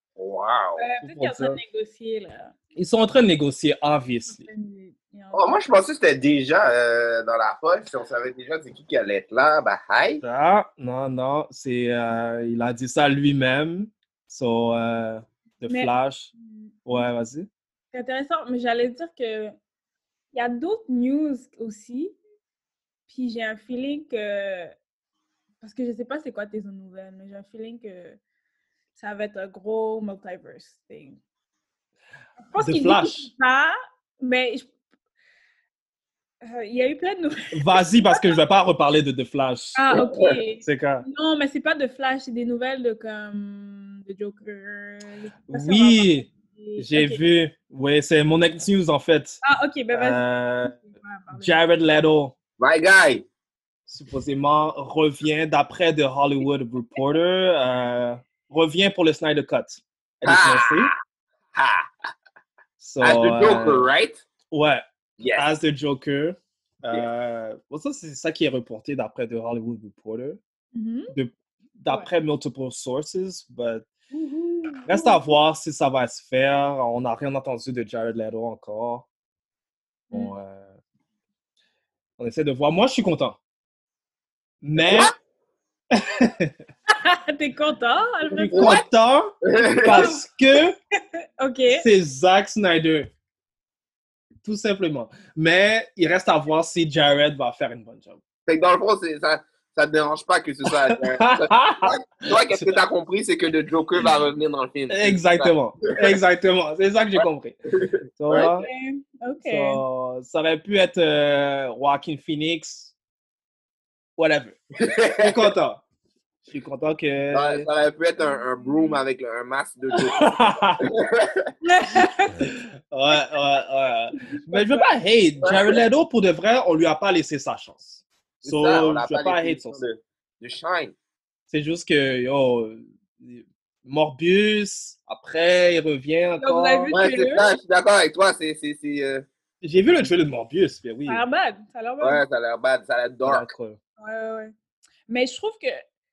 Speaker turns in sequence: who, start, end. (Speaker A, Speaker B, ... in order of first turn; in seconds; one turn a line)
Speaker A: 0.2-0.8
Speaker B: 0.8-2.5
Speaker C: 1.0-1.6
Speaker C: 2.8-4.5
Speaker B: 4.3-5.6
Speaker A: 5.3-10.2
Speaker C: 10.2-16.3
Speaker B: 15.7-17.1
Speaker C: 16.9-17.5
Speaker B: 17.9-19.6
Speaker B: 20.3-22.2
Speaker B: 23.1-24.7
Speaker B: 25.6-28.2
Speaker B: 28.9-31.2
Speaker B: 32.5-34.7
Speaker C: 32.6-33.3
Speaker B: 36.4-38.4
Speaker C: 37.5-39.8
Speaker B: 39.8-47.2
Speaker A: 40.0-40.4
Speaker C: 40.6-41.0
Speaker C: 45.5-49.4
Speaker B: 49.4-51.6
Speaker C: 49.9-50.8
Speaker C: 51.4-52.4
Speaker A: 52.6-53.3
Speaker C: 53.9-60.9
Speaker A: 60.2-60.9
Speaker A: 61.5-61.9
Speaker C: 62.8-63.9
Speaker A: 63.0-64.2
Speaker C: 64.5-70.4
Speaker A: 65.2-65.5
Speaker B: 70.7-71.1
Speaker C: 71.1-73.9
Speaker B: 74.1-75.2
Speaker C: 74.8-79.1
Speaker C: 80.1-80.8
Speaker C: 82.2-83.4
Speaker C: 84.6-85.1
Speaker C: 85.9-86.6
Speaker B: 86.9-88.8
Speaker C: 88.3-90.8
Speaker A: 88.5-88.8
Speaker A: 89.5-90.1
Speaker B: 89.8-90.2
Speaker B: 91.4-91.8
Speaker C: 91.7-93.1
Speaker C: 94.4-98.2
Speaker A: 98.5-105.5
Speaker C: 100.7-102.7
Speaker C: 104.9-107.6
Speaker A: 107.8-108.5
Speaker C: 108.2-108.7
Speaker B: 108.3-109.8
Speaker C: 109.5-112.9
Speaker C: 114.2-114.6
Speaker A: 114.8-115.4
Speaker C: 115.2-115.8
Speaker C: 116.5-117.7
Speaker A: 117.3-121.5
Speaker B: 118.2-119.0
Speaker C: 120.0-120.9
Speaker B: 121.6-122.4
Speaker C: 122.3-129.8
Speaker B: 124.5-124.8
Speaker A: 128.4-130.9
Speaker C: 131.5-136.9
Speaker B: 136.4-137.5
Speaker A: 136.9-139.3
Speaker C: 139.6-141.2
Speaker B: 141.1-142.2
Speaker A: 142.0-143.5
Speaker C: 143.3-143.8
Speaker B: 144.0-144.5
Speaker B: 145.1-145.8